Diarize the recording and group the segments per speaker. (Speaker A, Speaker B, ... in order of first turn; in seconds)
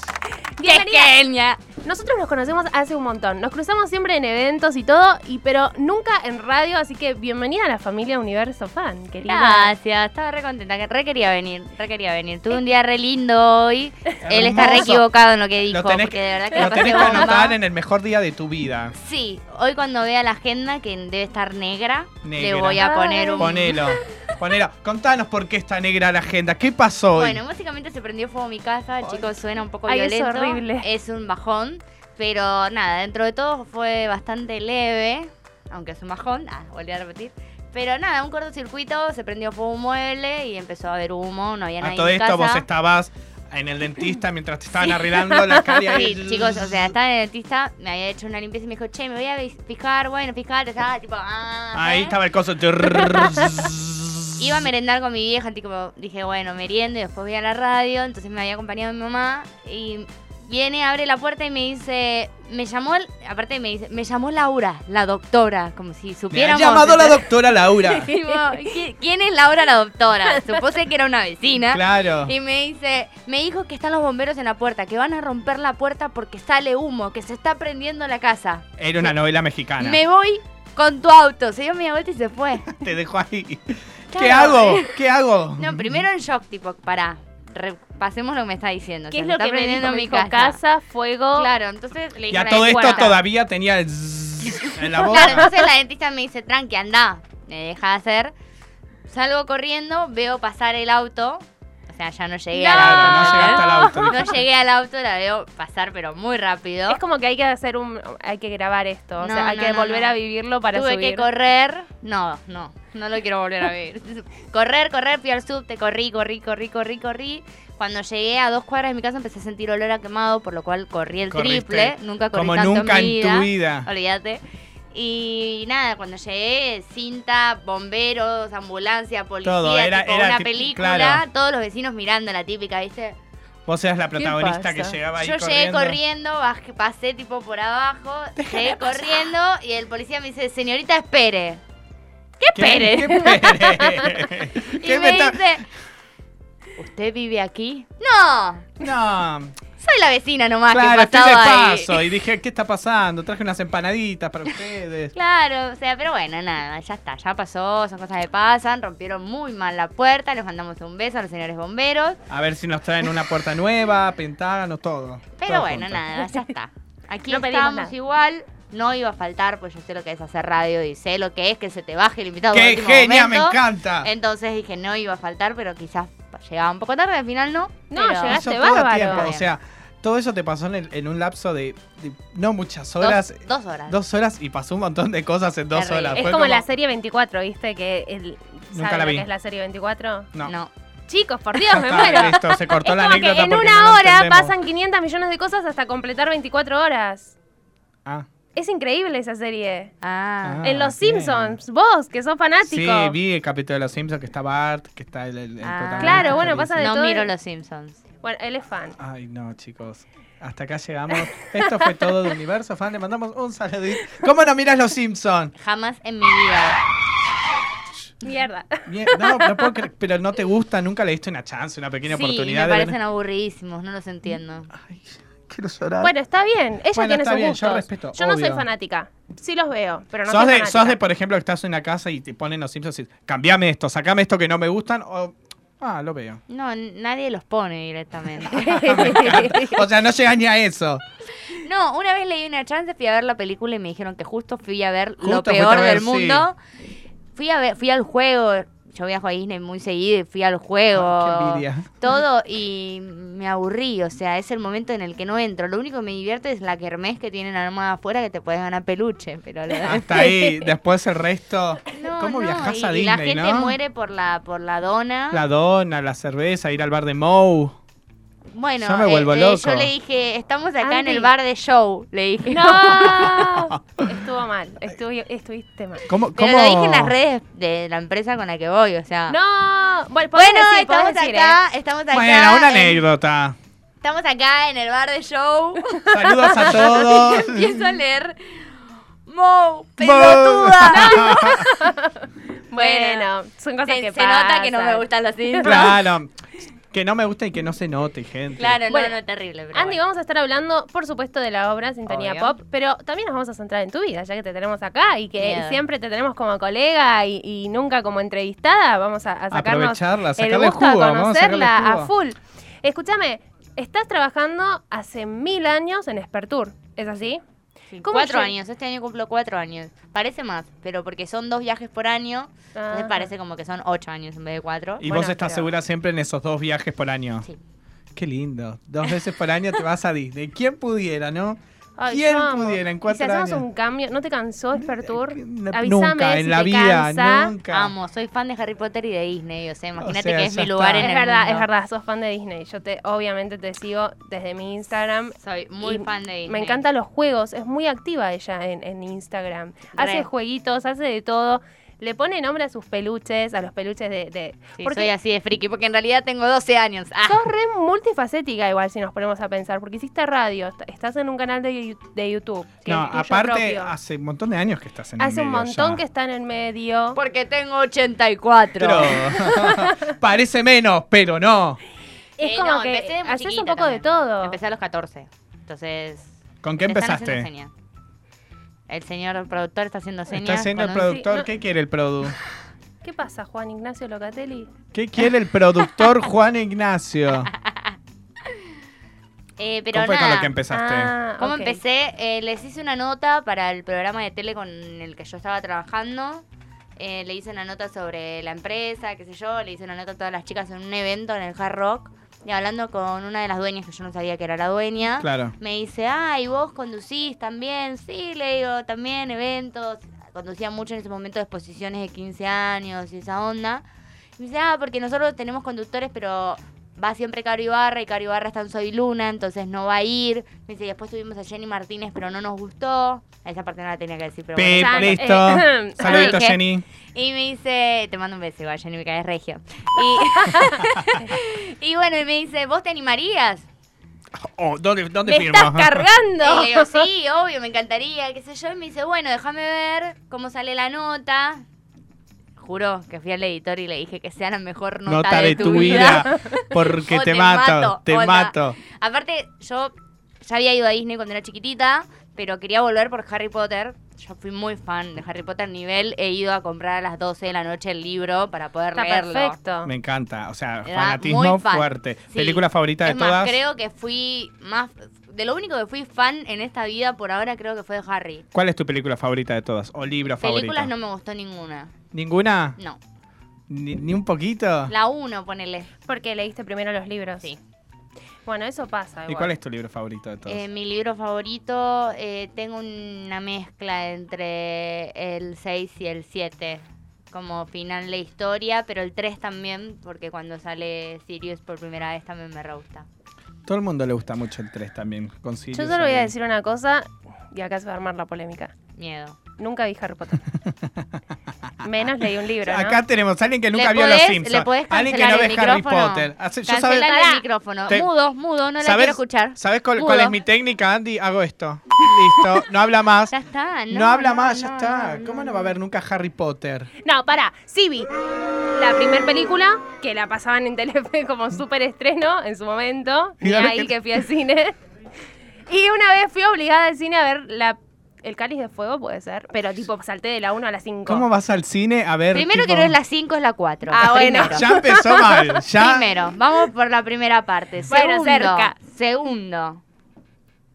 Speaker A: 0.3-1.1, 1.8-9.7, 16.5-17.5, 22.7-24.0, 29.9-30.9, 45.3-45.9, 89.1-91.5, 92.4-93.2, 102.5-104.4, 106.9-111.3, 134.2-135.0, 142.9-144.0, 167.3-167.9, 177.9-179.3, 186.2-190.3, 191.1-197.3, 198.6-199.9, 200.6-203.2, 206.0-207.3, 208.2-209.0, 211.6-212.1, 218.2-219.8, 226.0-231.0, 238.5-239.8, 270.8-271.3, 272.5-276.1, 279.3-281.6, 286.1-287.2, 290.9-296.0, 299.7-317.4, 318.0-318.5, 322.8-323.3, 325.1-325.7, 332.0-337.5, 341.0-355.1, 357.3-363.9, 365.2-367.2, 369.3-370.0, 372.4-374.6, 380.9-381.5, 383.0-384.7, 390.7-391.8, 424.8-426.5, 430.2-430.8, 435.3-437.1, 445.5-446.4, 458.9-459.9, 476.1-477.5, 478.5-479.5, 495.7-498.7, 499.6-500.4, 501.8-503.0, 507.1-507.4, 517.0-518.1, 518.7-524.7, 525.7-531.2, 533.9-535.6, 537.9-538.8
Speaker B: 0.6-1.6, 9.3-17.6, 18.9-23.8, 27.2-42.6, 45.9-52.2, 54.4-67.3, 67.9-79.1, 79.8-82.7, 84.1-84.9, 85.6-90.6, 91.3-93.2, 95.0-98.3, 99.1-107.0, 109.2-110.2, 110.7-133.2, 135.2-141.6, 142.4-145.7, 146.8-148.7, 149.8-152.1, 155.2-162.2, 165.4-178.4, 179.1-179.5, 183.0-184.0, 185.7-186.3, 190.4-190.7, 200.0-200.6, 205.6-208.0, 215.6-216.8, 222.1-224.7, 236.5-239.1, 241.5-246.6, 247.3-260.7, 261.9-265.4, 268.5-273.5, 276.4-279.4, 280.3-283.0, 284.0-291.7, 292.8-293.3, 293.8-295.9, 298.6-300.0, 302.1-302.6, 305.4-305.8, 317.9-325.1, 337.7-341.7, 345.4-346.8, 350.0-350.3, 354.8-357.5, 367.1-369.2, 372.4-377.7, 378.9-381.1, 387.5-388.0, 389.6-390.5, 391.4-396.4, 397.0-413.8, 414.4-426.6, 427.1-433.7, 436.4-441.6, 442.6-459.6, 460.9-468.5, 470.2-471.9, 474.9-475.9, 480.5-493.1, 499.0-499.4, 503.7-510.4, 513.3-515.7, 532.3-534.6, 535.8-539.8
Speaker C: 14.2-15.1, 15.7-18.9, 22.2-27.4, 41.8-47.0, 51.7-54.6, 66.3-68.1, 71.6-72.3, 78.8-80.0, 82.7-86.0, 92.3-95.5, 102.7-104.4, 121.3-123.9, 129.4-131.2, 133.7-136.0, 138.4-139.2, 142.6-145.6, 148.8-149.6, 150.7-155.1, 162.3-166.1, 172.5-174.1, 178.2-186.6, 188.7-189.3, 191.5-194.5, 200.4-201.6, 202.6-206.9, 209.0-215.5, 218.9-223.0, 224.7-226.1, 226.9-228.7, 230.3-236.4, 238.5-241.0, 245.2-246.5, 250.9-251.9, 259.8-263.8, 265.3-267.8, 268.8-269.9, 273.1-274.1, 276.1-277.1, 282.1-283.6, 286.1-287.9, 290.0-291.7, 295.6-298.8, 309.5-312.1, 325.0-327.5, 328.1-333.6, 334.7-337.9, 340.0-341.1, 362.9-366.0, 368.8-371.8, 376.6-377.5, 380.3-382.4, 384.9-387.5, 389.9-391.1, 405.2-405.5, 424.6-426.9, 434.4-436.1, 445.1-448.8, 459.8-463.6, 468.5-470.9, 472.1-472.8, 473.7-474.9, 479.3-480.6, 493.7-496.3, 500.6-501.2, 502.6-507.1, 508.8-513.3, 513.9-516.9, 523.4-523.9, 531.1-533.0, 534.4-536.1